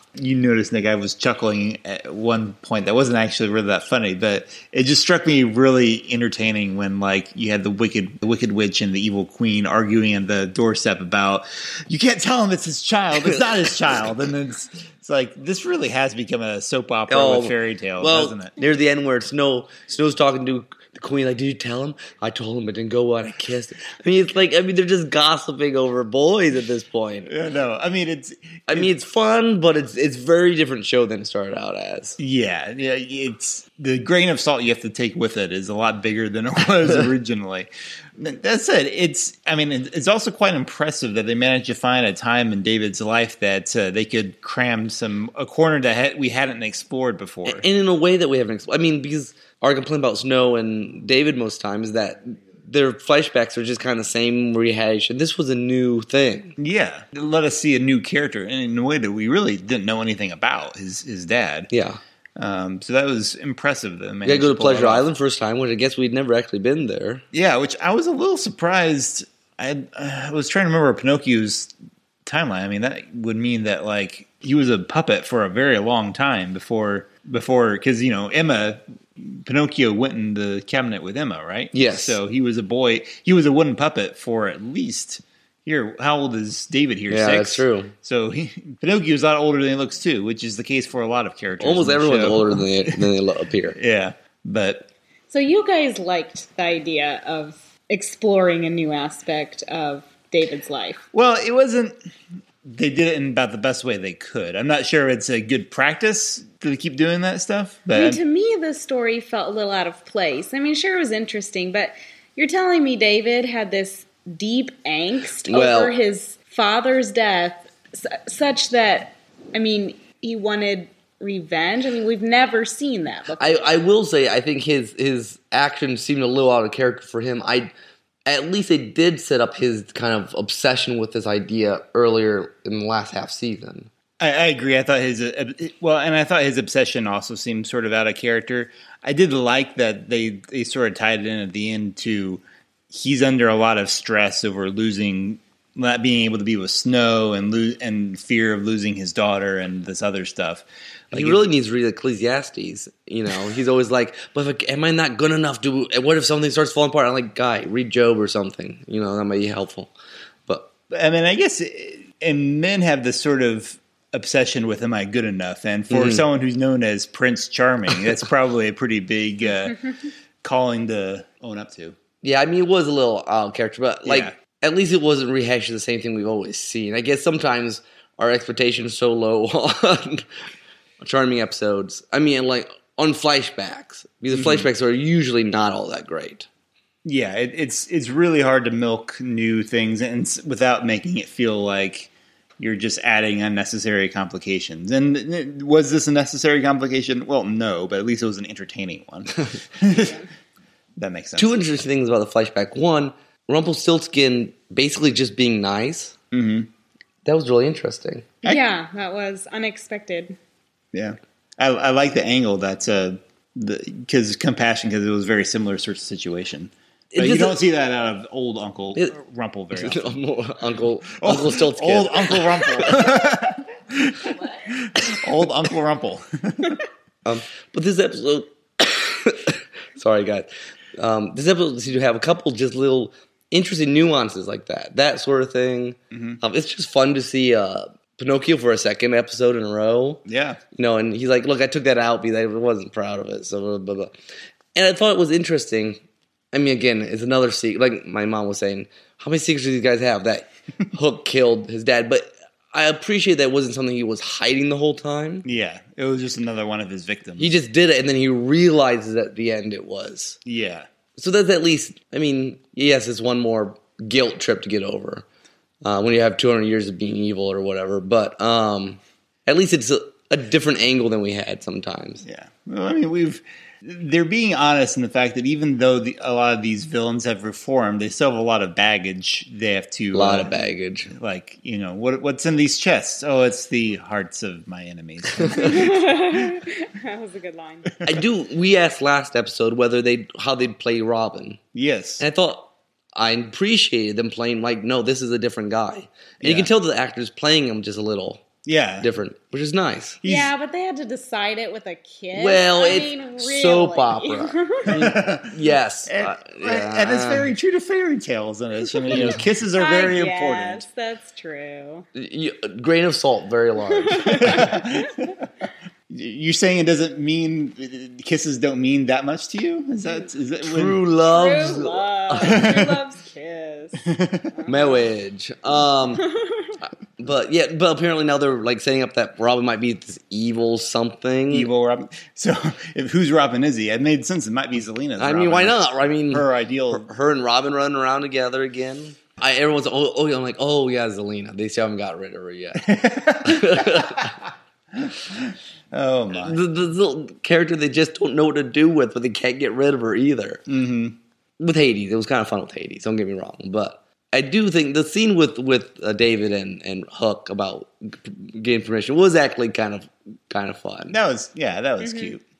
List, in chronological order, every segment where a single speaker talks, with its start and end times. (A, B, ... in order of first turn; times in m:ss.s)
0:00.2-0:18.5 A
0:17.1-0:27.3 B
0:27.2-0:28.9 A
0:28.7-0:32.2 B
0:32.2-0:47.6 A
0:47.4-0:56.5 B
0:56.6-1:01.7 A
1:01.7-1:02.0 B
1:02.4-1:05.1 A
1:04.2-1:07.2 B
1:07.3-1:11.7 A
1:12.2-1:33.1 A
1:21.7-1:22.2 B
1:27.1-1:27.9 B
1:31.6-1:33.8 B
1:33.7-1:34.9 A
1:35.3-1:41.0 C
1:41.1-1:42.0 A
1:42.6-1:48.2 A
1:47.9-2:03.6 C
1:55.5-1:56.0 B
2:03.4-2:07.7 B
2:08.3-2:13.9 B
2:14.2-2:31.4 A
2:31.1-2:39.9 B
2:40.9-2:52.0 A
2:45.9-2:46.2 B
2:52.2-3:00.2 B
2:54.0-2:54.3 A
3:01.0-3:06.5 B
3:04.3-3:04.7 A
3:07.0-3:20.1 A
3:19.9-3:20.3 C
3:21.0-3:21.6 A
3:21.4-3:26.1 B
3:26.3-3:26.7 A
3:27.2-3:28.3 B
3:28.4-3:30.4 C
3:30.9-3:40.1 A
3:37.1-3:37.6 B
3:39.7-3:43.3 B
3:41.1-3:46.8 A
3:47.2-4:04.1 B
3:56.1-3:56.4 A
4:00.3-4:00.6 A
4:04.7-4:06.0 B
4:06.5-4:15.4 B
4:15.4-4:17.6 A
4:17.4-4:20.4 B
4:20.4-4:20.9 A
4:21.2-4:25.2 B
4:25.8-4:32.2 B
4:32.2-4:40.6 A
4:40.1-4:41.1 B
4:41.1-4:46.3 A
4:45.6-4:48.1 C
4:48.0-4:51.6 B
4:51.7-4:52.2 A
4:52.2-4:58.4 B
4:56.4-4:56.7 A
4:58.6-4:59.1 A
4:59.0-5:00.2 B
5:00.2-5:00.5 A
5:00.2-5:04.9 C
5:02.3-5:07.5 B
5:04.9-5:10.8 A
5:09.1-5:12.0 C
5:09.1-5:09.4 B
5:12.1-5:14.7 B
5:13.8-5:15.3 C
5:14.4-5:15.4 A
5:16.1-5:21.0 A
5:20.6-5:22.7 B
5:21.3-5:25.1 C
5:22.4-5:23.0 A
5:24.1-5:24.4 A
5:24.7-5:26.3 B
5:26.1-5:26.8 C
5:27.2-5:31.7 B
5:31.5-5:37.1 A
5:35.2-5:44.3 B
5:42.8-5:44.3 A
5:45.0-5:46.6 A
5:46.3-5:50.6 B
5:50.7-5:51.2 A
5:51.6-6:01.1 B
6:01.1-6:02.4 A
6:02.0-6:02.3 C